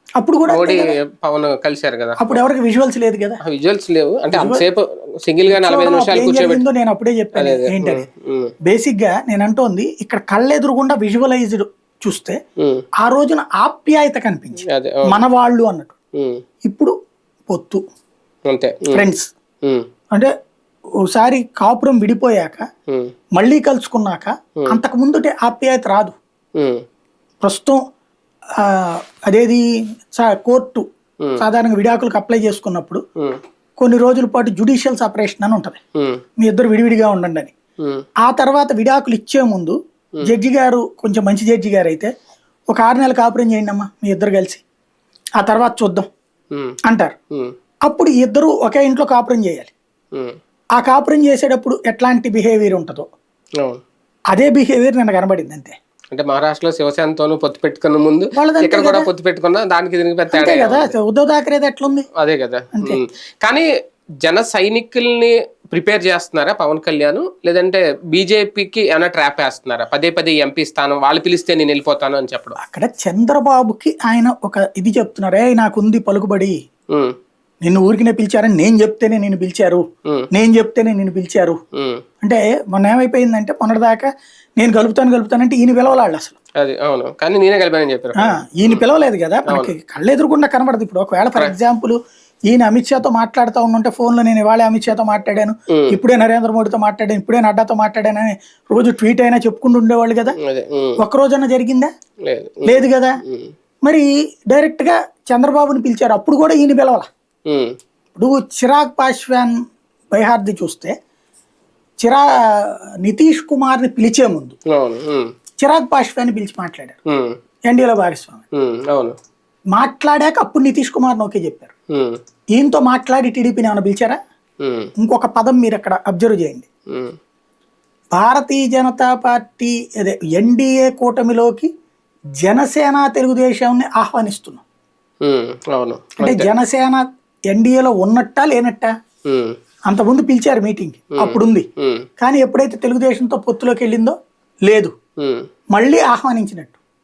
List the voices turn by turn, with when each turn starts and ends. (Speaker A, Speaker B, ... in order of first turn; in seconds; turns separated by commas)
Speaker A: 0.2-0.9, Speaker B: 0.5-2.4, Speaker A: 2.2-3.4, Speaker B: 3.4-6.6, Speaker A: 4.3-4.7, Speaker A: 5.5-8.1, Speaker B: 7.3-8.5, Speaker A: 8.6-12.4, Speaker B: 12.6-12.8, Speaker A: 13.0-15.9, Speaker B: 14.7-15.2, Speaker B: 16.2-16.4, Speaker A: 16.6-16.9, Speaker A: 17.5-17.8, Speaker B: 18.5-19.0, Speaker A: 18.9-19.3, Speaker A: 21.1-22.6, Speaker A: 23.4-26.1, Speaker B: 26.6-26.8, Speaker A: 27.4-27.8, Speaker A: 28.6-29.6, Speaker A: 30.1-30.9, Speaker A: 31.4-33.0, Speaker A: 33.8-35.8, Speaker A: 36.4-37.5, Speaker A: 38.2-42.1, Speaker A: 42.7-44.6, Speaker A: 45.4-46.1, Speaker A: 46.9-47.1, Speaker A: 47.9-49.7, Speaker A: 50.8-53.1, Speaker A: 54.3-55.8, Speaker B: 56.1-60.9, Speaker A: 58.4-59.1, Speaker A: 60.3-62.1, Speaker B: 62.2-63.6, Speaker B: 64.2-72.5, Speaker A: 72.6-76.5, Speaker A: 77.6-81.6, Speaker B: 81.8-82.0, Speaker A: 82.2-86.4, Speaker B: 86.6-88.9, Speaker A: 88.2-92.0, Speaker B: 89.5-89.7, Speaker A: 92.5-100.4, Speaker B: 95.7-96.0, Speaker B: 100.4-101.0, Speaker A: 101.0-101.9, Speaker B: 102.2-103.5, Speaker A: 102.6-103.1, Speaker A: 103.8-107.1, Speaker B: 107.5-107.8, Speaker A: 108.2-109.5, Speaker A: 110.1-110.9, Speaker A: 112.0-114.5, Speaker B: 114.7-115.3, Speaker A: 115.6-117.0, Speaker B: 117.1-117.3, Speaker A: 117.7-118.4, Speaker B: 118.5-119.1, Speaker A: 119.8-121.7, Speaker A: 122.5-124.2, Speaker B: 124.6-124.9, Speaker A: 125.0-126.7, Speaker A: 128.1-131.7, Speaker A: 132.4-134.6, Speaker B: 135.2-136.5, Speaker A: 136.2-138.9, Speaker B: 139.3-139.5, Speaker A: 139.9-141.7, Speaker B: 141.2-142.1, Speaker A: 142.2-144.1, Speaker A: 144.7-144.9, Speaker B: 145.2-145.5, Speaker A: 145.7-146.8